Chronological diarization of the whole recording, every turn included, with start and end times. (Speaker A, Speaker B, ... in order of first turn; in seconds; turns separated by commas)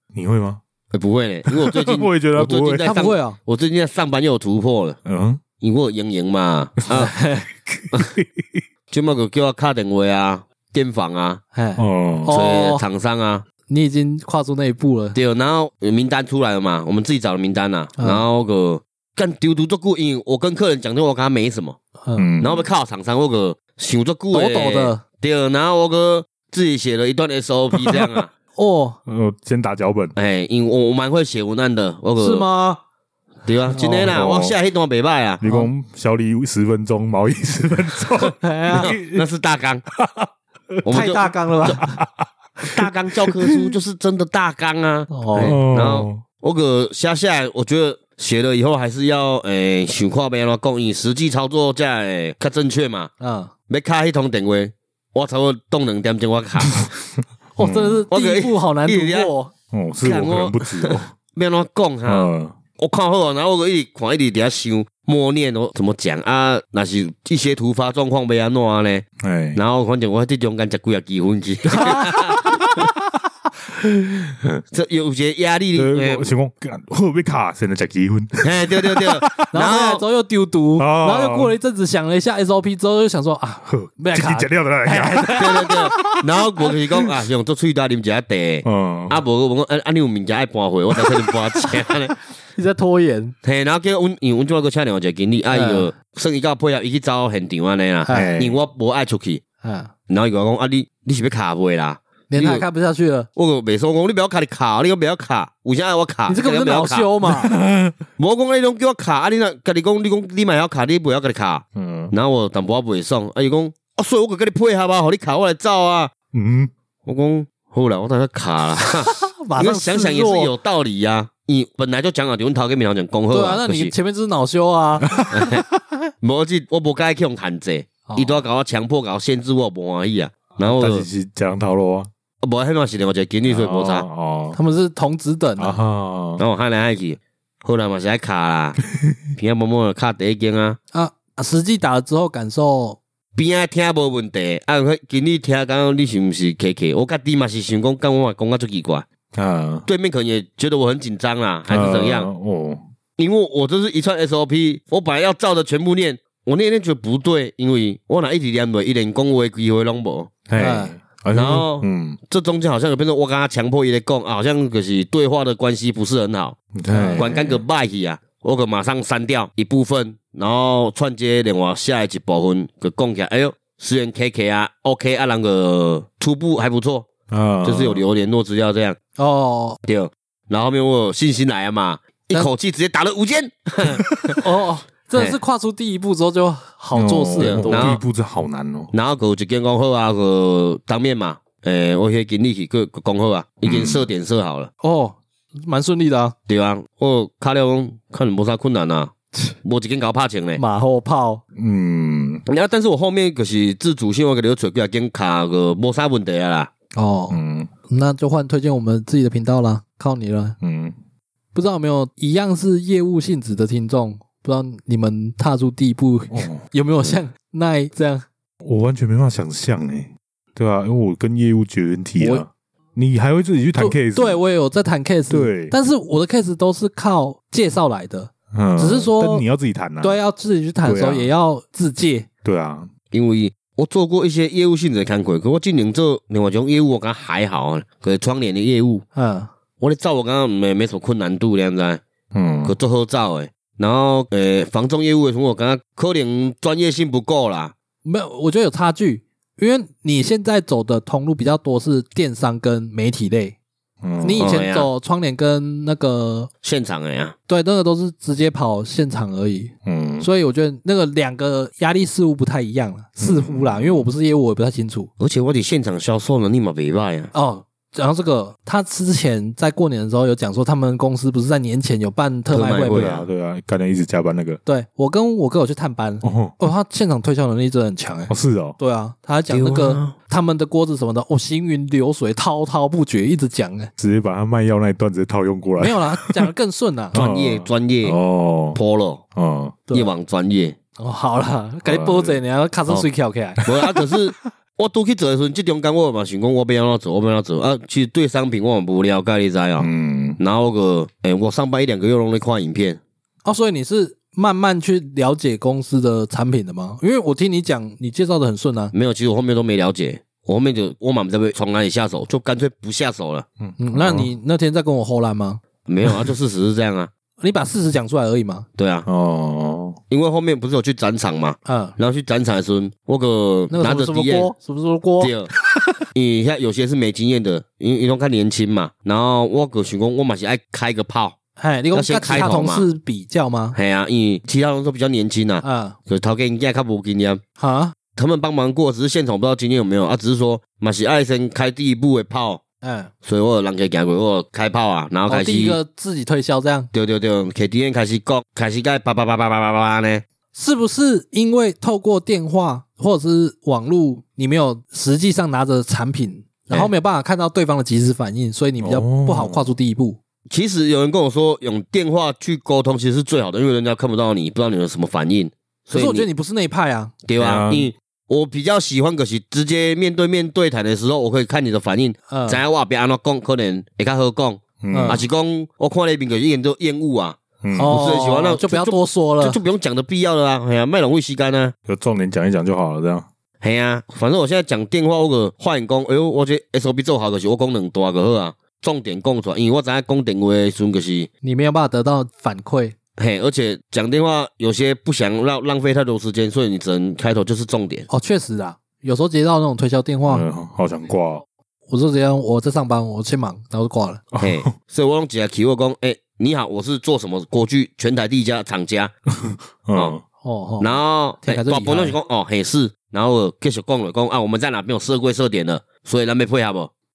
Speaker A: 0.1-0.6, Speaker B: 0.9-5.0, Speaker A: 1.5-2.9, Speaker C: 2.8-3.4, Speaker A: 5.0-5.4, Speaker B: 5.6-7.1, Speaker C: 6.9-7.5, Speaker A: 7.7-8.6, Speaker B: 8.9-11.4, Speaker C: 11.5-12.8, Speaker A: 11.8-12.3, Speaker B: 12.3-13.4, Speaker C: 13.7-15.2, Speaker B: 15.1-21.8, Speaker C: 18.0-18.2, Speaker C: 22.0-22.3, Speaker A: 22.1-22.6, Speaker B: 22.4-28.3, Speaker C: 24.3-25.0, Speaker A: 27.8-28.1, Speaker C: 28.5-29.0, Speaker A: 29.1-30.1, Speaker B: 30.1-32.5, Speaker C: 32.2-32.8, Speaker B: 33.4-35.4, Speaker C: 33.8-34.1, Speaker A: 33.9-34.5, Speaker A: 35.4-39.2, Speaker C: 38.4-38.9, Speaker B: 38.7-39.8, Speaker A: 39.9-40.3, Speaker B: 40.8-41.8, Speaker C: 40.9-42.0, Speaker A: 41.7-42.3, Speaker B: 42.7-53.1, Speaker A: 43.5-43.7, Speaker C: 45.1-45.5, Speaker A: 45.4-46.2, Speaker C: 53.2-53.5, Speaker B: 53.7-56.8, Speaker C: 57.6-59.5, Speaker A: 57.6-58.0, Speaker B: 58.1-59.3, Speaker A: 59.7-61.1, Speaker B: 60.0-72.4, Speaker A: 62.0-62.6, Speaker A: 69.2-69.6, Speaker A: 72.2-73.2, Speaker A: 73.7-74.6, Speaker B: 74.7-76.3, Speaker A: 75.7-79.5, Speaker B: 78.4-80.0, Speaker C: 79.5-85.6, Speaker A: 80.8-81.5, Speaker A: 83.6-86.8, Speaker B: 85.3-92.1, Speaker A: 88.6-89.2, Speaker C: 92.5-93.3, Speaker B: 93.4-99.4, Speaker C: 95.5-95.9, Speaker C: 98.0-98.4, Speaker A: 98.1-98.6, Speaker C: 99.6-99.9, Speaker B: 100.1-102.6, Speaker C: 102.3-103.3, Speaker B: 103.3-107.1, Speaker C: 106.3-107.5, Speaker A: 107.2-107.9, Speaker B: 108.2-116.1, Speaker A: 111.7-112.1, Speaker A: 116.3-116.7, Speaker B: 117.0-123.9, Speaker C: 119.4-120.5, Speaker C: 123.3-125.2, Speaker A: 125.2-125.6, Speaker B: 125.3-125.6, Speaker B: 126.2-131.1, Speaker C: 128.1-128.4, Speaker A: 130.6-132.1, Speaker B: 132.4-134.1, Speaker A: 133.5-134.6, Speaker C: 134.5-135.8, Speaker A: 135.6-136.4, Speaker B: 136.4-138.8, Speaker B: 139.3-140.8, Speaker C: 140.9-143.0, Speaker B: 143.3-149.1, Speaker A: 149.3-149.8, Speaker B: 149.8-152.3, Speaker A: 151.7-152.8, Speaker B: 153.2-160.3, Speaker A: 160.5-162.2, Speaker C: 160.6-160.9, Speaker B: 161.3-166.6, Speaker A: 166.7-167.6, Speaker C: 166.9-167.2, Speaker B: 167.1-177.1, Speaker A: 177.3-178.0, Speaker B: 177.6-179.0, Speaker C: 179.2-179.8, Speaker B: 179.8-184.4, Speaker C: 184.4-188.0, Speaker A: 186.9-188.9, Speaker B: 187.4-188.0, Speaker B: 188.9-194.7, Speaker A: 193.6-194.1, Speaker C: 194.8-196.3, Speaker B: 196.5-200.6, Speaker C: 200.6-201.4, Speaker A: 201.6-202.4, Speaker B: 202.4-206.7, Speaker C: 206.9-207.4, Speaker A: 207.3-207.7, Speaker C: 207.9-210.6, Speaker A: 210.6-210.9, Speaker C: 211.5-218.2, Speaker A: 216.3-216.6, Speaker A: 218.6-224.4, Speaker C: 222.2-222.4, Speaker C: 223.8-229.4, Speaker A: 225.3-225.7, Speaker A: 228.5-230.2, Speaker C: 230.0-232.3, Speaker A: 230.8-231.3, Speaker A: 232.4-232.9, Speaker B: 233.1-239.0, Speaker C: 239.1-239.5, Speaker B: 239.8-242.0, Speaker A: 242.3-242.7, Speaker B: 242.6-247.7, Speaker C: 248.0-253.6, Speaker A: 254.0-254.5, Speaker C: 254.2-256.5, Speaker B: 254.4-254.9, Speaker B: 256.6-257.3, Speaker C: 257.5-265.1, Speaker A: 259.8-260.3, Speaker A: 263.2-264.1, Speaker B: 265.2-267.3, Speaker C: 267.3-273.2, Speaker B: 272.5-273.2, Speaker A: 272.9-274.6, Speaker C: 274.6-283.9, Speaker A: 276.2-276.6, Speaker A: 278.3-278.8, Speaker B: 279.5-280.1, Speaker A: 284.0-286.5, Speaker C: 285.8-287.1, Speaker B: 287.1-288.2, Speaker A: 287.1-288.8, Speaker B: 288.7-289.2, Speaker A: 289.3-289.8, Speaker B: 289.9-290.8, Speaker C: 291.0-293.6, Speaker A: 291.8-292.4, Speaker B: 293.6-303.0, Speaker A: 299.8-300.4, Speaker C: 303.4-308.9, Speaker B: 308.9-313.4, Speaker A: 313.6-314.3, Speaker C: 313.8-315.6, Speaker B: 315.8-317.1, Speaker C: 317.4-318.7, Speaker B: 318.8-319.1, Speaker A: 319.1-320.0, Speaker B: 320.1-324.5, Speaker C: 321.6-321.9, Speaker C: 323.7-325.3, Speaker B: 325.2-325.5, Speaker B: 326.1-331.4, Speaker C: 331.6-333.8, Speaker B: 331.9-332.9, Speaker B: 333.7-337.4, Speaker C: 335.6-336.0, Speaker C: 337.6-337.9, Speaker B: 338.1-342.6, Speaker C: 342.8-343.1, Speaker B: 343.2-345.8, Speaker C: 345.3-346.9, Speaker B: 346.9-350.2, Speaker C: 350.5-360.2, Speaker A: 358.8-359.7, Speaker B: 360.5-366.3, Speaker C: 365.9-367.1, Speaker B: 367.2-381.7, Speaker A: 367.4-367.9, Speaker C: 372.3-372.6, Speaker A: 374.8-375.2, Speaker C: 374.9-375.2, Speaker A: 377.6-378.0, Speaker C: 377.8-379.6, Speaker A: 381.9-383.3, Speaker B: 383.6-391.3, Speaker C: 391.4-392.9, Speaker B: 393.2-398.1, Speaker C: 398.1-400.5, Speaker A: 400.3-401.4, Speaker C: 401.9-404.2, Speaker A: 404.3-404.7, Speaker B: 404.4-409.1, Speaker A: 409.4-410.2, Speaker C: 410.4-412.2, Speaker B: 410.8-416.9